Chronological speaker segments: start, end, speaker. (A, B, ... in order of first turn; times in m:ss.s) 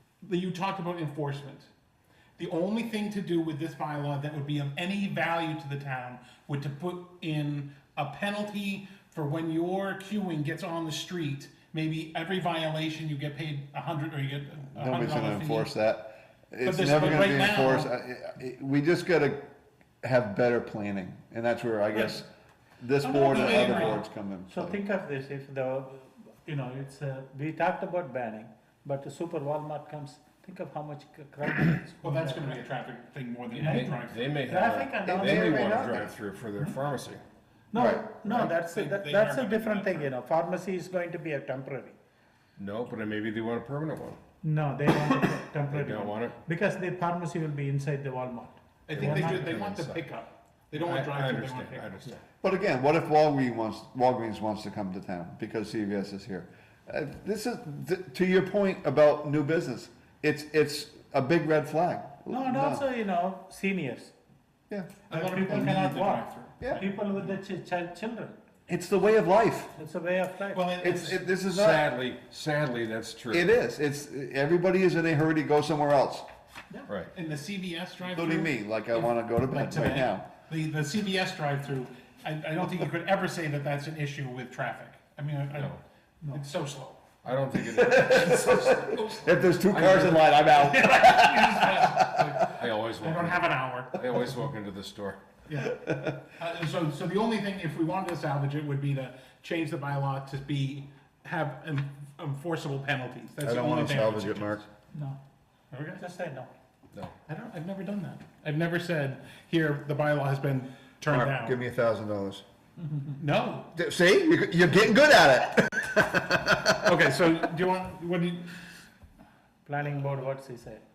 0:00.2-0:01.7 A
0:02.4-0:15.7 A
0:14.7-0:19.5 B
0:16.6-0:17.9 A
0:20.0-0:24.8 B
0:23.0-0:32.6 C
0:23.1-0:24.0 A
0:32.0-0:34.3 A
0:33.5-0:37.2 D
0:33.6-0:35.9 C
0:35.0-0:36.1 B
0:37.7-0:42.0 C
0:37.7-0:38.0 B
0:38.2-0:40.1 A
0:42.6-0:44.2 D
0:44.4-0:49.6 C
0:45.6-0:46.4 D
0:48.9-0:52.1 A
0:48.9-0:50.0 D
0:50.7-0:52.2 D
0:52.4-1:02.8 B
1:02.3-1:04.1 C
1:04.7-1:05.0 B
1:05.1-1:07.4 A
1:05.1-1:08.4 C
1:08.7-1:09.8 B
1:09.8-1:10.7 C
1:10.5-1:11.2 A
1:10.8-1:11.9 B
1:11.4-1:13.5 D
1:13.3-1:16.2 B
1:17.1-1:25.8 A
1:18.1-1:20.2 B
1:25.5-1:25.8 D
1:26.3-1:27.0 A
1:27.2-1:30.4 D
1:27.6-1:32.5 B
1:30.4-1:34.2 A
1:32.4-1:35.2 D
1:35.5-1:44.7 A
1:35.7-1:36.2 B
1:43.4-1:44.6 B
1:44.9-1:45.2 C
1:45.7-1:46.0 A
1:46.0-1:46.5 C
1:47.2-1:51.6 A
1:51.0-1:52.4 B
1:52.8-1:53.1 C
1:53.2-1:53.7 A
1:53.7-1:56.9 B
1:56.7-1:58.6 A
1:59.6-2:00.8 C